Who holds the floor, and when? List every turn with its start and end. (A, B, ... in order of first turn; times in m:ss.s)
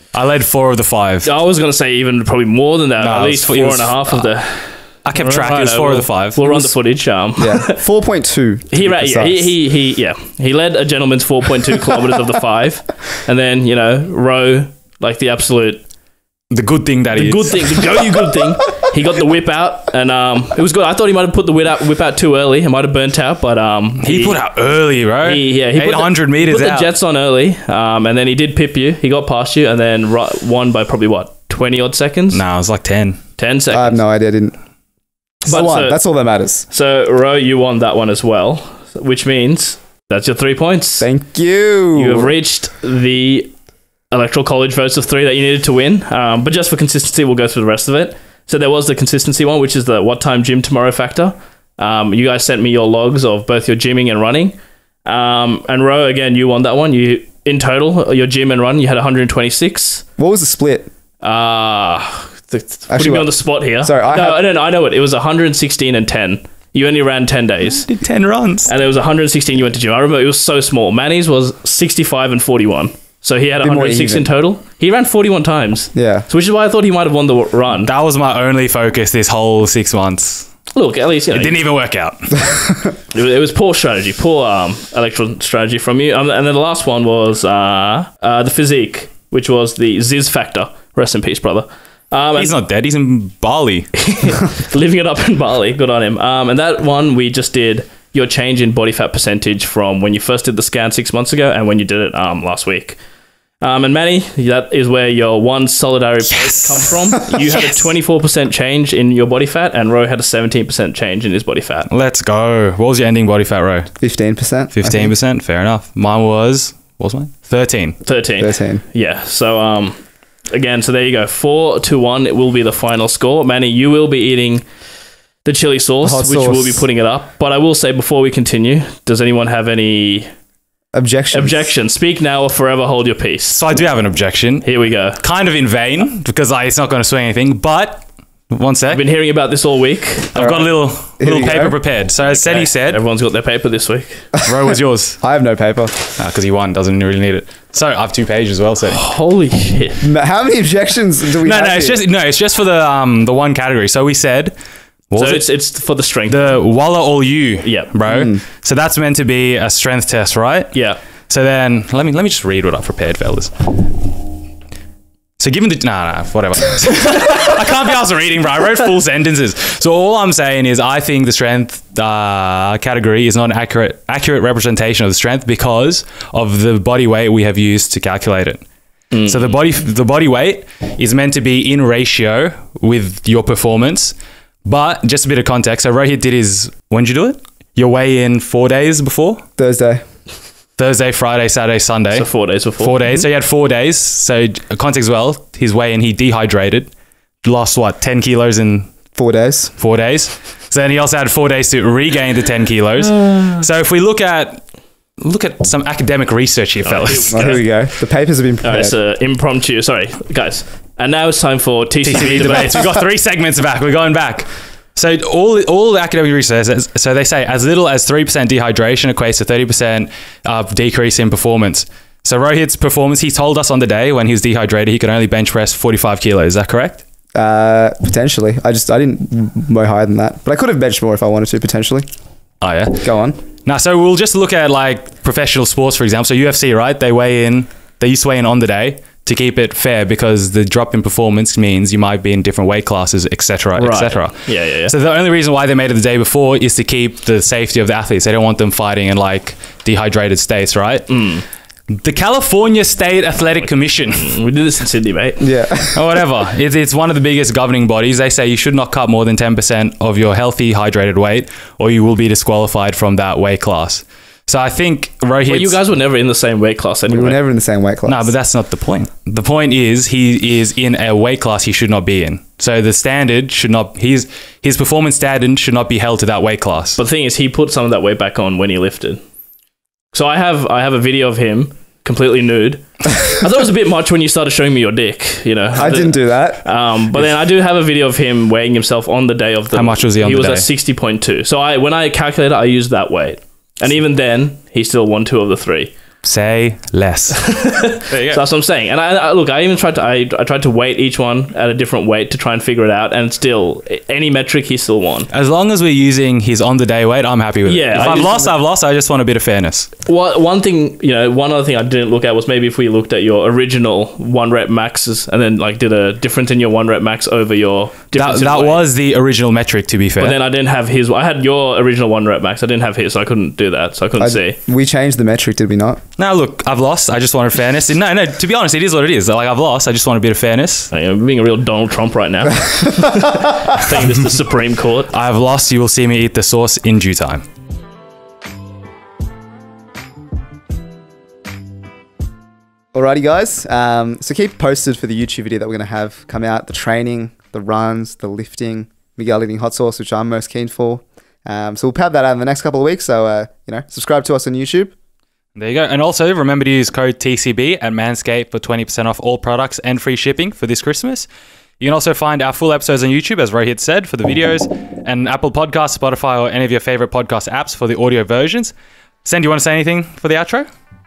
0:00.1-0:01.3 A
0:01.2-0:07.8 B
0:03.0-0:06.4 A
0:06.4-0:06.8 C
0:07.4-0:09.5 C
0:08.7-0:15.8 B
0:16.5-0:18.1 A
0:17.2-0:24.4 B
0:24.0-0:26.9 A
0:25.2-0:32.4 B
0:32.3-0:33.2 A
0:33.4-0:34.0 B
0:33.7-0:34.6 C
0:35.4-0:36.0 B
0:35.4-0:36.6 C
0:36.7-0:41.1 B
0:41.0-0:42.3 C
0:41.9-0:43.5 B
0:44.1-1:00.0 B
1:00.2-1:00.9 C
1:01.2-1:07.9 B
1:02.9-1:04.4 C
1:07.8-1:08.7 A
1:08.7-1:17.9 B
1:13.6-1:14.3 C
1:15.9-1:16.2 C
1:17.9-1:20.6 A
1:20.7-1:21.6 B
1:21.3-1:22.6 A
1:23.1-1:32.6 B
1:32.4-1:34.0 A
1:33.9-1:43.0 B
1:43.6-1:51.9 B
1:46.3-1:47.8 A
1:47.3-1:47.6 C
1:51.9-1:54.0 A
1:54.0-1:55.1 C
1:54.7-1:58.0 A
1:58.0-2:04.7 B
1:58.4-1:58.8 C
2:05.4-2:10.3 B
2:06.0-2:06.8 C
2:10.9-2:11.7 C
2:11.3-2:13.6 B
2:13.5-2:19.0 A
2:14.6-2:15.2 B
2:18.9-2:20.3 B
2:20.3-2:23.0 A
2:20.4-2:21.8 C
2:22.2-2:24.3 B
2:24.4-2:25.2 A
2:25.2-2:26.2 C
2:26.2-2:29.0 A
2:28.9-2:30.0 B
2:30.0-2:32.0 C
2:31.4-2:34.5 A
2:35.1-2:35.7 A
2:35.2-2:36.5 B
2:36.3-2:44.1 A
2:37.6-2:37.9 B
2:38.1-2:38.4 C
2:40.7-2:41.0 B
2:45.4-2:58.6 A
2:59.1-2:59.6 B
2:59.2-3:09.4 A
3:09.6-3:10.0 C
3:10.8-3:16.9 A
3:12.1-3:12.9 B
3:17.4-3:18.9 A
3:19.1-3:19.7 C
3:19.8-3:27.6 A
3:23.0-3:23.6 B
3:26.8-3:27.7 B
3:27.3-3:29.0 C
3:28.6-3:32.9 B
3:32.0-3:47.0 A
3:47.4-3:52.1 C
3:52.6-4:11.3 A
3:53.0-3:53.4 C
4:03.8-4:04.9 B
4:11.1-4:11.4 B
4:11.9-4:14.4 A
4:14.1-4:15.5 B
4:15.4-4:16.2 C
4:15.9-4:25.8 A
4:25.5-4:27.4 B
4:27.1-4:28.3 C
4:28.0-4:37.0 A
4:37.0-4:39.2 B
4:40.1-4:55.9 B
4:45.7-4:46.7 C
4:49.7-4:50.7 A
4:56.2-4:58.4 A
4:57.4-5:05.3 B
5:05.3-5:09.9 A
5:07.6-5:08.6 B
5:10.1-5:18.8 B
5:18.1-5:20.4 A
5:20.2-5:24.6 B
5:24.2-5:26.0 C
5:26.2-5:30.9 A
5:30.9-5:35.1 B
5:35.1-5:37.5 A
5:42.9-5:54.9 C
5:55.5-6:01.3 A
6:01.8-6:08.7 A
6:09.2-6:10.7 A